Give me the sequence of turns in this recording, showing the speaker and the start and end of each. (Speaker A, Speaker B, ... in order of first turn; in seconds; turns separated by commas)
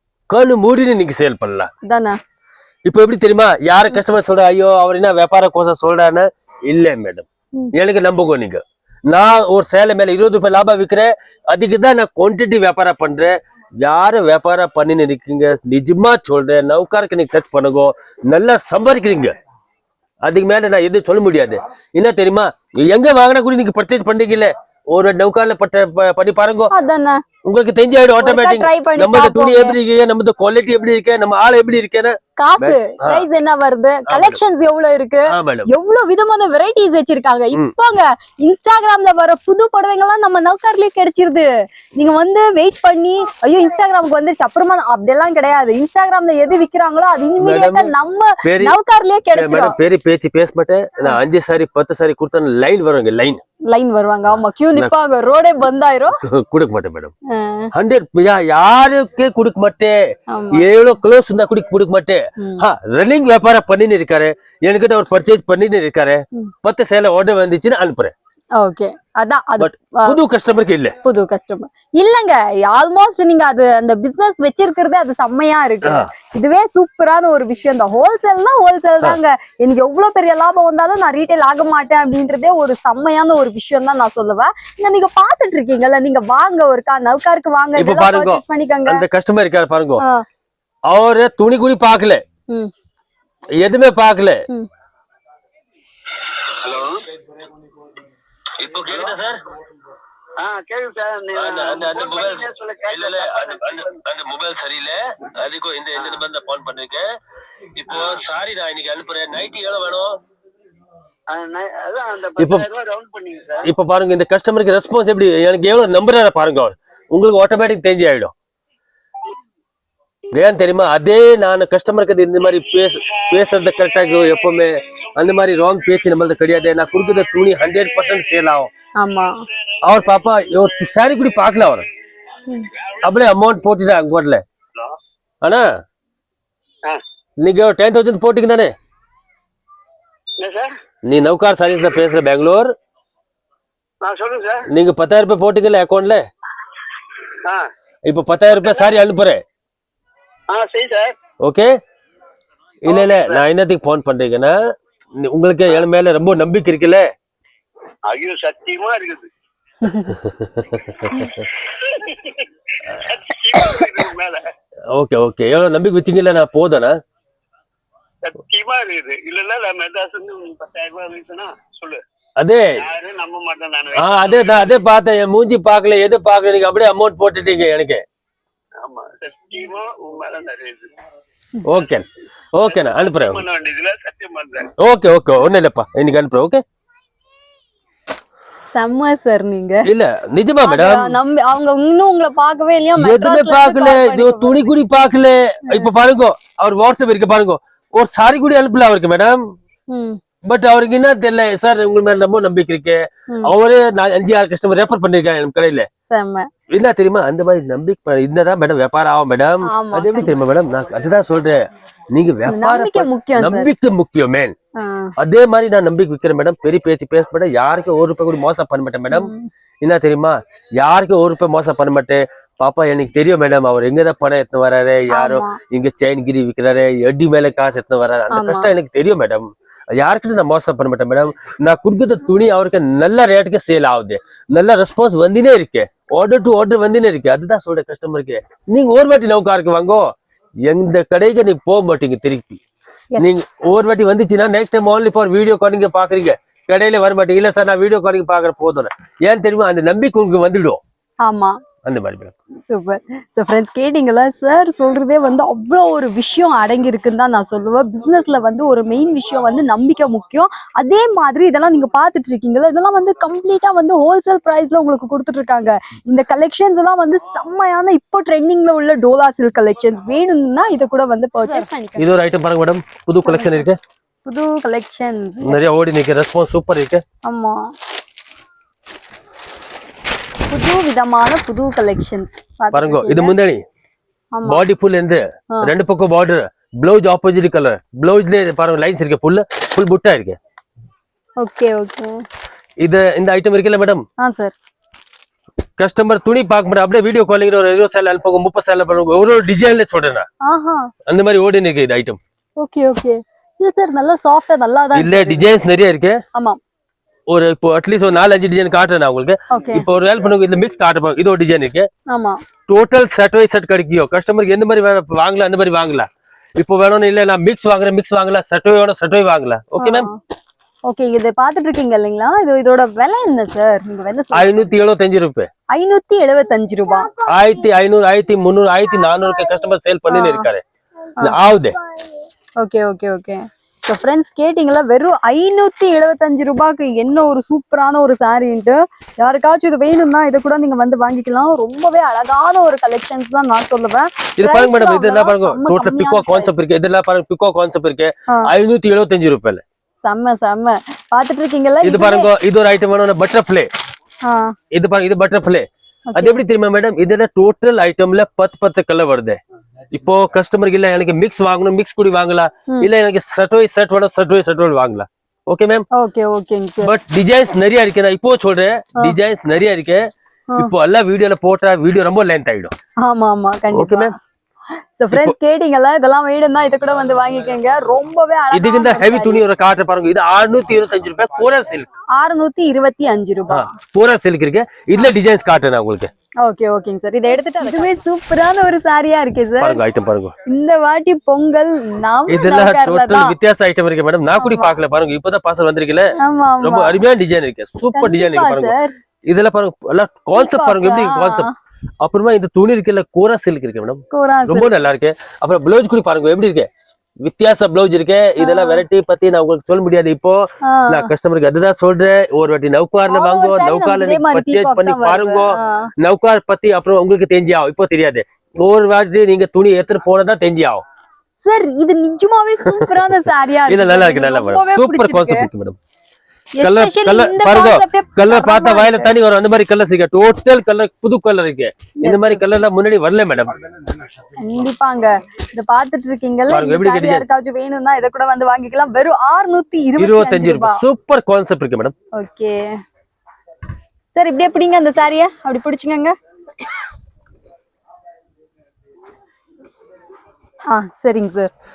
Speaker A: 0.3-1.7, Speaker B: 1.8-2.1, Speaker A: 2.9-19.3, Speaker A: 20.2-26.7, Speaker B: 26.7-27.2, Speaker A: 27.4-33.2, Speaker B: 28.2-29.8, Speaker B: 32.4-49.8, Speaker A: 34.1-34.4, Speaker A: 35.3-35.7, Speaker A: 47.4-47.9, Speaker A: 48.4-48.7, Speaker A: 49.3-53.4, Speaker B: 53.7-56.1, Speaker A: 56.2-57.1, Speaker B: 57.3-57.7, Speaker A: 57.7-60.0, Speaker B: 60.3-60.6, Speaker A: 60.5-68.1, Speaker B: 62.4-62.6, Speaker B: 68.5-70.2, Speaker A: 69.6-71.0, Speaker B: 71.0-89.0, Speaker A: 75.8-76.1, Speaker A: 87.8-90.0, Speaker A: 90.9-92.2, Speaker A: 93.6-94.4, Speaker C: 96.5-97.0, Speaker A: 98.6-99.4, Speaker C: 98.8-99.2, Speaker C: 100.4-104.0, Speaker A: 101.3-107.0, Speaker C: 106.0-106.2, Speaker A: 107.7-110.2, Speaker C: 107.9-108.2, Speaker C: 111.3-113.7, Speaker A: 112.4-112.7, Speaker A: 113.6-118.3, Speaker A: 120.3-128.7, Speaker C: 123.1-124.4, Speaker B: 128.9-129.5, Speaker A: 129.8-131.9, Speaker A: 133.0-134.4, Speaker A: 135.4-135.7, Speaker A: 137.4-138.7, Speaker C: 140.4-140.7, Speaker A: 141.1-142.7, Speaker C: 144.0-144.7, Speaker A: 144.7-146.2, Speaker C: 147.3-147.7, Speaker A: 148.1-149.4, Speaker C: 150.5-151.2, Speaker A: 151.4-151.7, Speaker A: 152.8-154.6, Speaker C: 152.9-153.4, Speaker A: 155.2-157.1, Speaker C: 158.1-159.3, Speaker B: 159.8-160.2, Speaker A: 160.1-161.5, Speaker C: 161.5-164.5, Speaker A: 164.9-166.9, Speaker C: 168.2-172.0, Speaker A: 172.4-172.9, Speaker C: 172.8-174.8, Speaker A: 173.9-178.0, Speaker C: 178.8-180.9, Speaker A: 181.6-183.4, Speaker C: 182.6-184.7, Speaker A: 184.8-186.6, Speaker B: 188.7-189.9, Speaker A: 189.8-191.2, Speaker B: 190.6-194.7, Speaker A: 193.0-199.4, Speaker B: 195.7-195.9, Speaker B: 199.9-200.2, Speaker A: 200.4-205.9, Speaker B: 206.1-206.5, Speaker A: 206.7-214.5, Speaker B: 209.7-210.3, Speaker B: 212.5-213.7, Speaker B: 214.8-215.1, Speaker A: 215.2-219.3, Speaker B: 219.1-219.5, Speaker A: 219.8-240.1, Speaker B: 225.1-225.6, Speaker B: 228.3-228.7, Speaker A: 240.6-242.6, Speaker A: 243.2-250.8, Speaker B: 251.2-251.6, Speaker A: 251.8-252.3, Speaker B: 252.7-272.1, Speaker A: 272.0-273.8, Speaker B: 273.2-273.7, Speaker B: 274.2-275.6, Speaker A: 275.4-277.0, Speaker B: 277.2-277.7, Speaker B: 280.5-283.3, Speaker A: 282.7-283.6, Speaker B: 284.3-284.6, Speaker A: 284.4-290.4, Speaker B: 291.4-292.2, Speaker A: 292.8-294.0, Speaker B: 294.2-294.5, Speaker A: 295.8-300.2, Speaker B: 300.4-300.9, Speaker A: 301.1-302.2, Speaker B: 302.6-305.5, Speaker A: 304.9-306.2, Speaker B: 306.3-306.6, Speaker A: 307.3-311.9, Speaker B: 309.5-309.9, Speaker B: 312.1-312.4, Speaker A: 312.7-320.1, Speaker B: 319.8-320.2, Speaker B: 320.9-324.7, Speaker A: 324.3-325.5, Speaker B: 325.7-327.2, Speaker A: 327.3-330.6, Speaker B: 330.1-330.5, Speaker A: 331.2-331.8, Speaker B: 332.6-346.5, Speaker A: 344.4-349.6, Speaker B: 350.0-352.3, Speaker A: 351.8-353.7, Speaker B: 354.2-354.5, Speaker A: 354.7-359.4, Speaker B: 356.1-356.4, Speaker A: 359.9-365.8, Speaker B: 365.9-366.9, Speaker A: 366.8-370.0, Speaker A: 370.6-372.7, Speaker B: 373.0-374.2, Speaker A: 373.7-374.1, Speaker B: 374.8-379.4, Speaker A: 378.5-381.8, Speaker B: 382.1-383.7, Speaker A: 383.5-386.1, Speaker B: 386.4-389.8, Speaker A: 389.6-390.3, Speaker B: 390.4-393.4, Speaker A: 392.3-398.7, Speaker B: 394.4-394.7, Speaker B: 396.2-397.0, Speaker B: 397.9-398.9, Speaker A: 399.3-401.5, Speaker B: 400.3-401.5, Speaker A: 402.0-406.7, Speaker B: 404.1-404.7, Speaker A: 407.2-420.8, Speaker B: 408.4-408.8, Speaker B: 410.6-411.1, Speaker B: 413.1-415.9, Speaker B: 421.4-425.5, Speaker A: 422.6-423.0, Speaker A: 423.6-425.8, Speaker B: 426.5-429.1, Speaker A: 426.6-433.6, Speaker B: 432.0-432.4, Speaker B: 434.4-440.8, Speaker A: 436.5-437.2, Speaker A: 440.0-441.9, Speaker B: 442.1-442.7, Speaker B: 444.1-446.1, Speaker B: 450.7-451.5